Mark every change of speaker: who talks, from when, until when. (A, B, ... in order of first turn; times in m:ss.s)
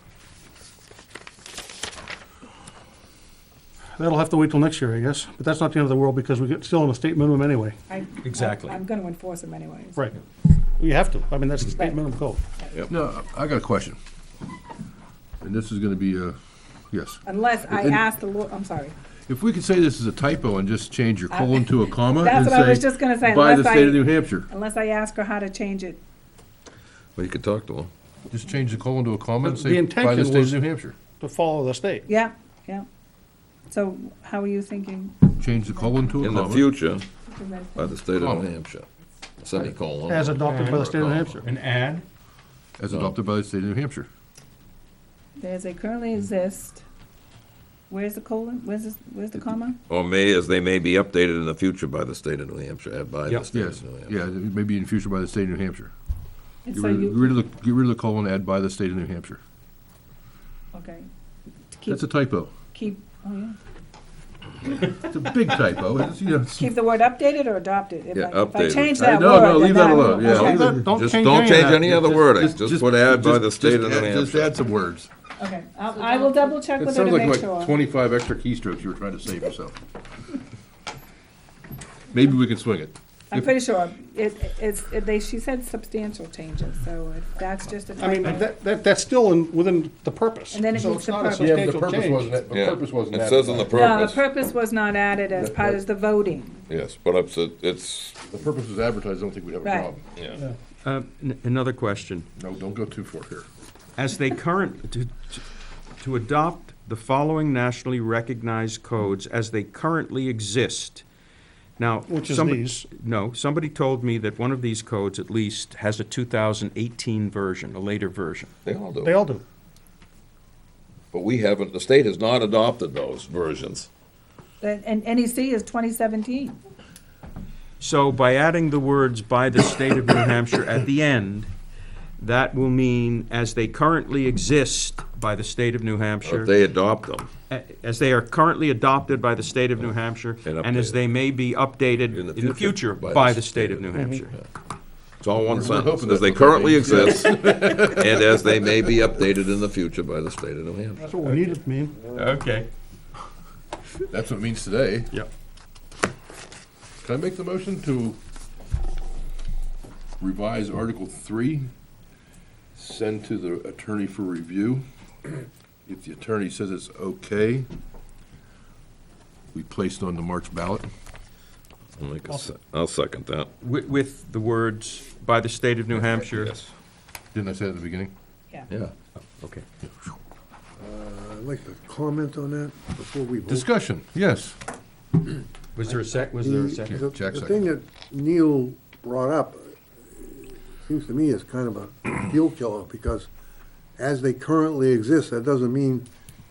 0:04.0-0:07.8 A
0:07.9-0:10.1 B
0:08.2-0:08.8 C
0:10.8-0:12.4 A
0:11.6-0:12.1 B
0:12.9-0:14.0 D
0:15.4-0:16.4 D
0:16.9-0:18.0 D
0:17.2-0:19.0 B
0:19.3-0:24.5 D
0:21.3-0:26.0 B
0:27.2-0:27.9 E
0:28.3-0:31.0 D
0:29.4-0:32.0 A
0:32.1-0:32.8 B
0:33.7-0:36.2 B
0:35.4-0:36.7 D
0:36.2-0:37.1 E
0:37.2-0:38.0 B
0:37.7-0:38.9 E
0:38.2-0:38.5 D
0:39.4-0:41.3 E
0:40.1-0:41.4 A
0:40.4-0:42.0 C
0:42.8-0:44.1 D
0:42.9-0:43.2 E
0:45.4-0:46.8 B
0:47.9-0:49.8 B
0:49.9-0:54.1 E
0:53.5-0:55.9 D
0:56.7-0:57.4 B
0:56.7-0:59.4 D
1:00.7-1:01.1 B
1:01.8-1:02.1 B
1:01.8-1:02.5 D
1:02.7-1:03.6 B
1:05.0-1:06.7 D
1:06.5-1:10.7 B
1:08.1-1:09.1 E
1:09.0-1:10.9 D
1:10.2-1:11.9 A
1:10.9-1:14.6 E
1:11.6-1:15.1 D
1:15.4-1:17.8 B
1:16.8-1:19.7 D
1:22.1-1:23.5 D
1:23.3-1:28.6 B
1:28.0-1:32.3 A
1:30.5-1:31.8 B
1:31.4-1:33.9 D
1:32.5-1:34.2 E
1:33.6-1:36.6 B
1:35.4-1:35.8 D
1:36.7-1:38.2 E
1:38.2-1:40.0 D
1:39.6-1:39.9 B
1:40.2-1:40.4 E
1:40.8-1:42.3 C
1:42.4-1:43.5 D
1:44.0-1:45.4 C
1:46.0-1:51.0 C
1:51.8-1:58.5 C
1:52.1-1:52.8 A
1:58.6-1:59.1 E
1:59.0-1:59.4 A
2:01.1-2:03.9 E
2:04.6-2:06.6 B
2:07.8-2:11.5 C
2:12.2-2:16.5 C
2:16.2-2:17.3 E
2:17.5-2:24.3 C
2:20.4-2:21.0 E
2:22.1-2:24.4 E
2:24.0-2:24.2 A
2:25.2-2:31.2 E
2:25.4-2:28.9 D
2:31.0-2:32.0 A
2:32.1-2:32.7 C
2:34.1-2:35.1 D
2:37.0-2:38.2 D
2:40.2-2:41.7 D
2:42.7-2:44.8 D
2:45.9-2:47.7 D
2:49.5-2:50.9 D
2:52.0-2:53.5 E
2:53.6-2:56.5 C
2:55.9-2:56.7 E
2:57.3-2:58.1 D
2:59.1-2:59.6 C
3:00.8-3:03.6 F
3:03.4-3:04.6 D
3:05.7-3:07.0 C
3:05.9-3:13.3 F
3:06.9-3:07.6 D
3:14.0-3:16.0 F